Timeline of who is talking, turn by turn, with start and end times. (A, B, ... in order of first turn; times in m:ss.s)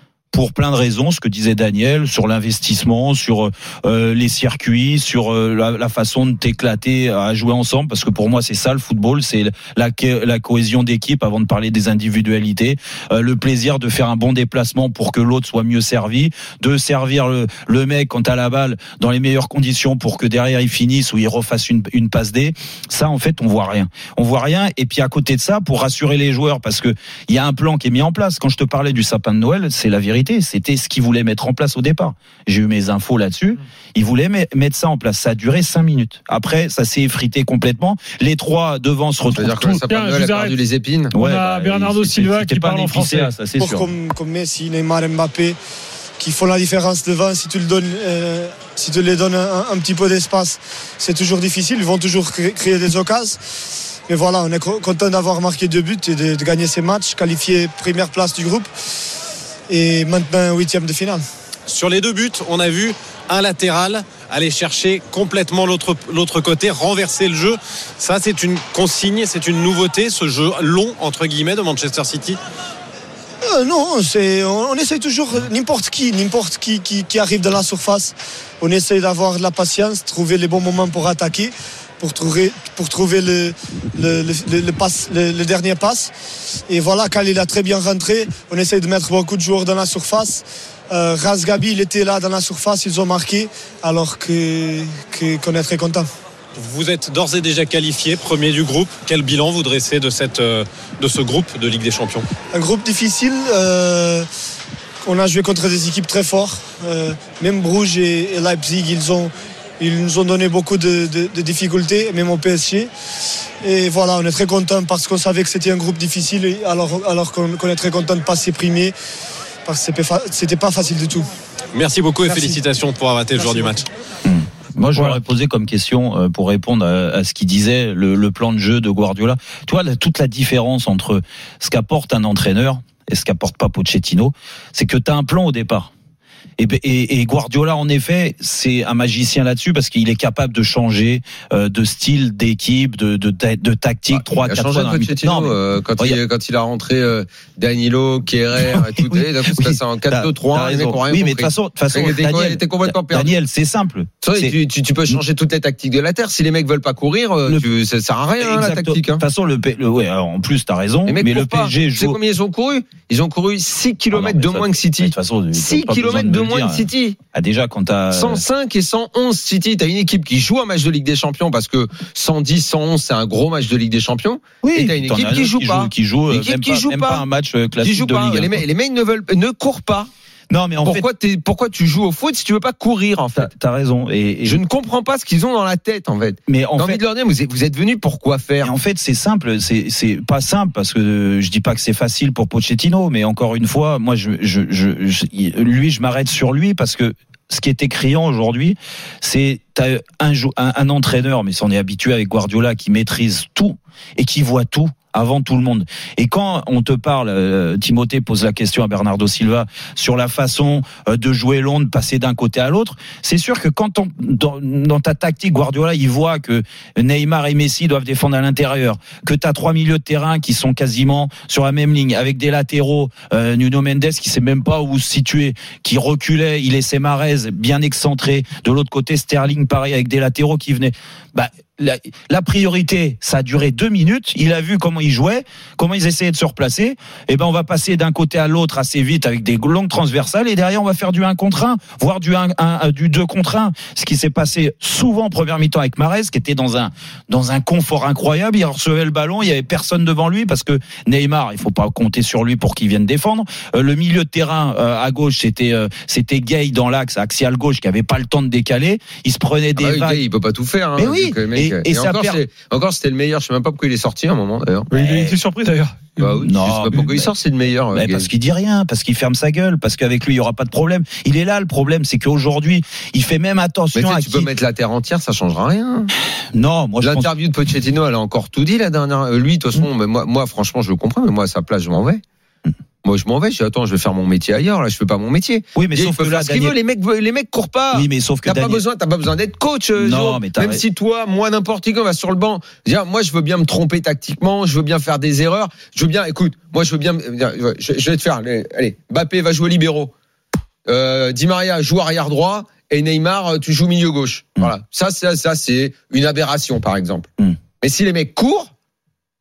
0:00.3-0:39.8 A
0:39.3-0:41.1 B
0:39.8-0:43.4 C
0:41.1-0:43.9 A
0:43.6-0:45.6 D
0:46.2-0:53.4 D
0:54.1-0:58.7 D
0:59.7-1:01.2 D
1:01.7-1:12.4 E
1:13.5-1:26.1 D
1:26.7-1:36.1 D
1:36.6-1:42.2 E
1:42.5-1:44.2 D
1:45.0-1:52.9 D
1:53.6-1:58.9 D
1:59.6-2:01.3 D
2:01.7-2:03.9 E
2:02.2-2:02.5 D
2:04.2-2:15.9 A
2:16.6-2:26.2 A
2:24.1-2:33.3 B
2:28.5-2:34.5 A
2:34.2-2:39.2 B
2:38.4-2:42.2 A
2:41.1-2:47.2 B
2:44.1-2:48.4 A
2:48.1-2:57.2 B
2:54.6-2:58.6 A
2:57.8-3:00.1 B
3:00.5-3:01.1 A
3:00.8-3:03.5 B
3:03.4-3:04.6 A
3:04.4-3:08.7 B
3:06.5-3:07.0 A
3:08.6-4:20.2 A
4:19.8-4:24.9 B
4:21.0-4:22.4 A
4:24.9-4:26.2 C
4:24.9-4:25.4 A
4:26.2-4:28.3 B
4:26.3-4:27.3 A
4:27.9-4:34.5 A
4:33.9-4:36.1 B
4:36.5-4:37.3 A
4:37.0-4:42.2 B
4:43.0-5:00.1 B
4:45.8-4:46.8 A
4:47.9-4:48.8 A
4:50.0-4:50.8 A
5:00.9-5:07.3 B
5:07.8-5:08.7 B